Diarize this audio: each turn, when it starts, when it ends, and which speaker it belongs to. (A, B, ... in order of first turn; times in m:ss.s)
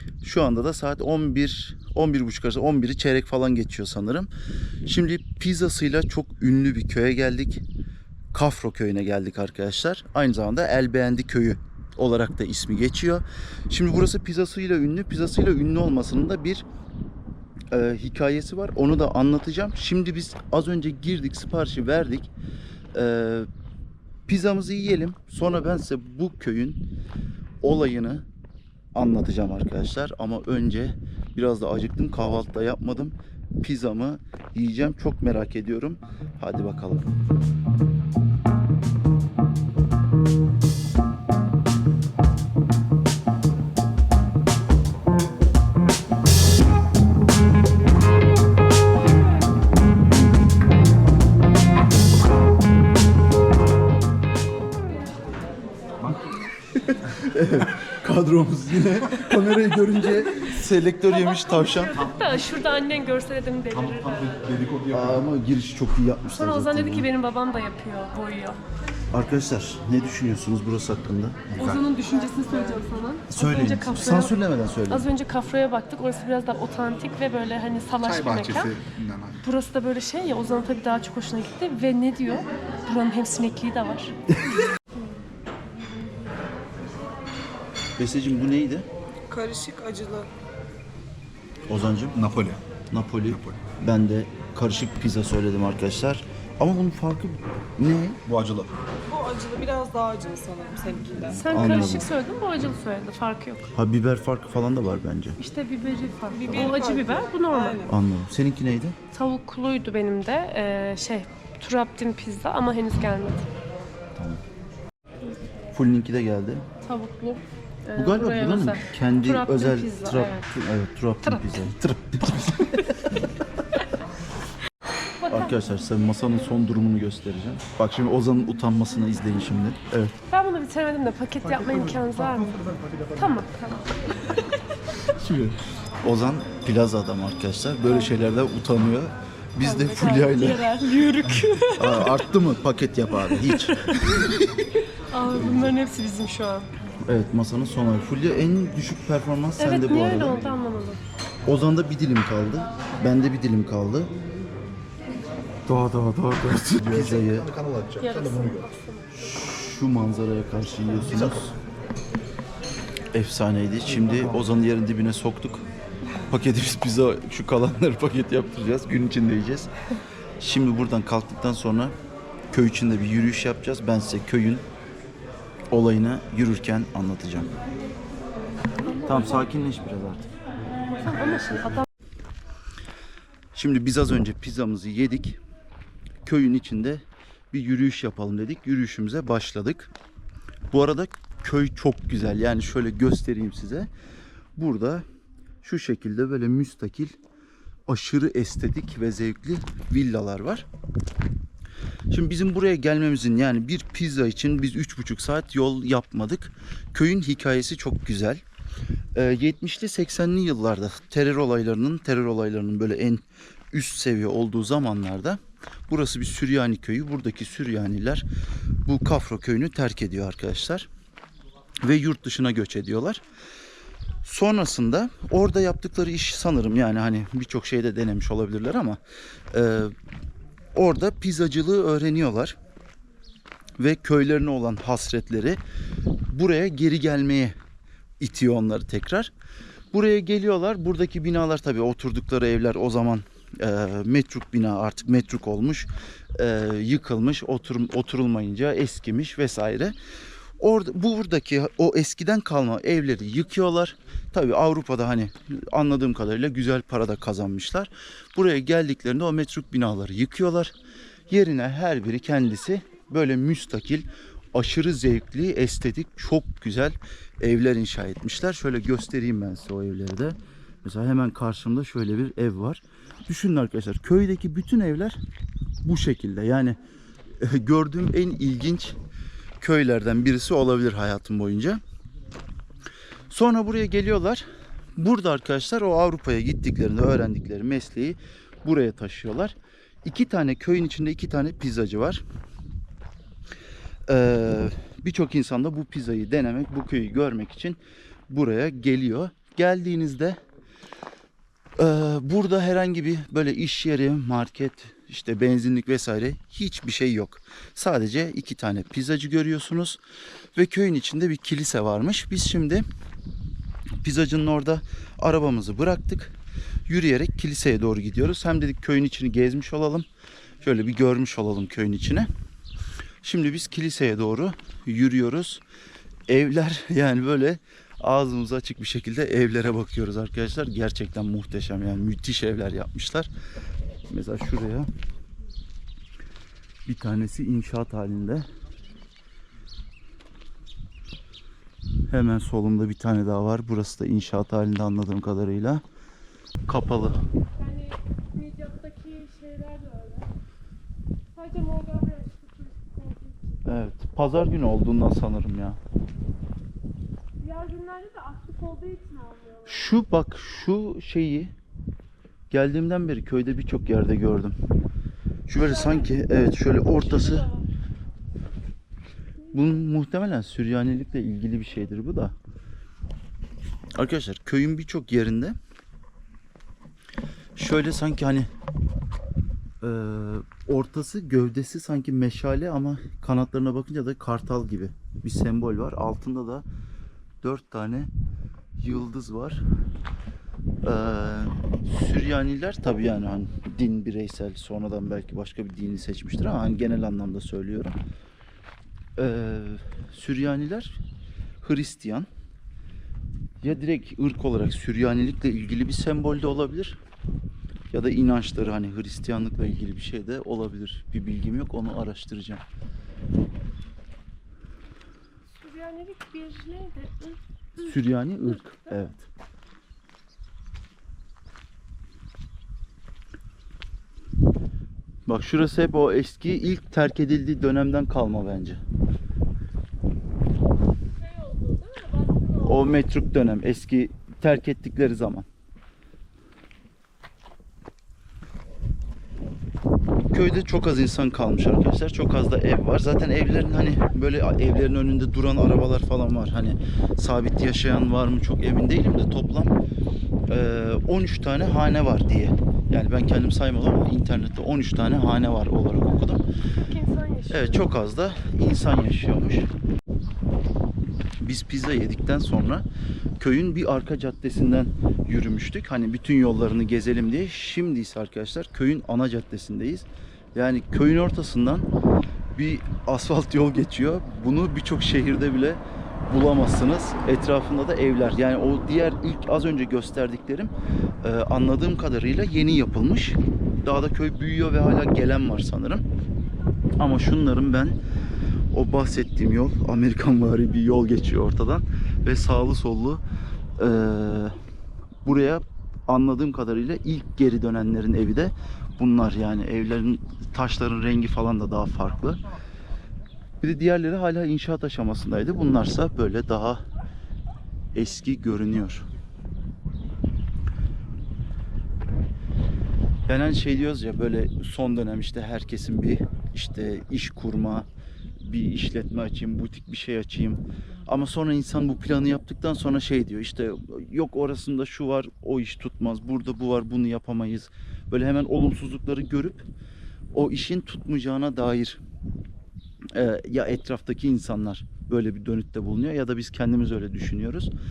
0:00.2-0:04.3 A
0:04.8-0:07.6 A
0:08.3-0:16.6 A
0:17.7-0:22.3 A
0:22.9-0:23.5 A
0:24.3-0:26.8 A
0:27.6-0:28.2 A
0:28.9-0:37.1 A
0:57.1-1:02.1 A
1:01.3-1:04.4 B
1:03.8-1:05.2 C
1:04.9-1:07.1 A
1:06.3-1:08.6 B
1:09.1-1:11.5 A
1:11.5-1:14.3 B
1:13.3-1:15.1 A
1:14.9-1:18.7 B
1:18.0-1:19.4 C
1:19.4-1:24.1 B
1:28.0-1:28.8 A
1:29.3-1:30.3 D
1:31.7-1:32.2 A
1:32.1-1:32.6 C
1:32.9-1:38.2 A
1:33.3-1:33.6 C
1:38.2-1:38.7 C
1:39.1-1:42.0 D
1:41.2-1:42.1 A
1:41.3-1:43.7 B
1:43.7-1:45.4 A
1:45.4-1:47.8 B
1:46.3-1:48.0 D
1:47.9-1:49.0 A
1:49.1-1:53.4 B
1:54.2-1:54.4 A
1:55.7-1:56.6 A
1:56.8-2:00.5 B
1:57.9-2:03.0 A
2:05.2-2:05.6 B
2:05.3-2:10.2 A
2:10.3-2:12.5 B
2:11.6-2:13.0 C
2:13.1-2:14.4 B
2:15.2-2:20.6 A
2:19.6-2:22.2 B
2:21.8-2:24.6 A
2:23.3-2:26.7 B
2:27.1-2:30.4 A
2:29.6-2:31.0 B
2:31.4-2:34.1 A
2:35.6-2:37.5 A
2:36.8-2:38.6 C
2:38.0-2:39.1 B
2:39.1-2:41.5 A
2:43.1-2:45.7 A
2:46.3-2:49.7 A
2:50.4-2:51.9 A
2:52.5-2:54.6 A
2:55.7-2:57.5 A
2:58.8-2:59.4 B
2:59.0-3:00.3 A
3:01.0-3:01.8 B
3:03.5-3:05.4 A
3:06.2-3:09.9 A
3:10.7-3:13.9 A
3:14.6-3:15.0 A
3:15.6-3:17.2 A
3:17.9-3:20.7 A
3:22.1-3:28.4 A
3:29.1-3:38.3 A
3:38.8-3:40.9 A
3:41.8-3:43.2 A
3:44.2-3:49.0 A
3:49.5-3:49.9 A
3:50.7-3:52.6 A
3:53.8-3:55.6 A
3:56.3-3:57.5 A
3:58.2-3:59.3 A
3:59.9-4:10.0 A
4:10.6-4:20.7 A
4:21.3-4:35.2 A
4:35.8-4:36.8 A
4:37.4-4:39.0 A
4:39.6-4:41.8 A
4:43.3-4:44.4 A
4:45.0-4:52.2 A
4:54.1-5:00.4 A
5:01.8-5:10.0 A
5:10.5-5:12.8 A
5:14.0-5:16.3 A
5:16.9-5:20.1 A
5:20.6-5:22.3 A
5:23.2-5:25.6 A
5:26.3-5:33.3 A
5:34.1-5:34.9 A
5:36.8-5:38.4 A
5:42.1-5:45.8 A
5:46.6-5:47.2 A
5:47.6-5:50.3 B
5:51.3-5:53.6 B
5:53.6-5:55.8 A
5:57.4-5:59.8 B
5:59.6-6:01.5 A
6:02.5-6:04.6 A
6:05.5-6:07.5 A
6:05.5-6:06.1 B
6:07.1-6:07.6 B
6:09.5-6:12.3 A
6:13.9-6:15.6 A
6:17.6-6:18.5 A
6:19.8-6:26.6 A
6:27.4-6:28.1 A
6:28.8-6:29.6 A
6:30.8-6:37.9 A
6:39.2-6:41.0 A
6:41.6-6:42.3 A
6:43.6-6:47.0 A
6:47.9-6:52.6 A
6:55.6-6:57.8 B
6:57.8-6:59.3 A
7:05.2-7:08.8 A
7:11.2-7:12.8 B
7:12.6-7:15.4 A
7:20.3-7:29.8 A
7:30.5-7:36.4 A
7:36.9-7:37.8 B
7:37.5-7:39.7 A
7:41.4-7:42.8 A
7:43.4-7:51.9 A
7:52.5-8:06.0 A
8:07.0-8:08.0 A
8:08.7-8:13.2 A
8:13.8-8:14.6 A
8:15.2-8:22.4 A
8:23.6-8:26.8 A
8:27.9-8:29.0 A
8:33.2-8:37.9 A
8:38.4-8:49.6 A
8:50.3-8:52.0 A
8:53.1-8:57.7 A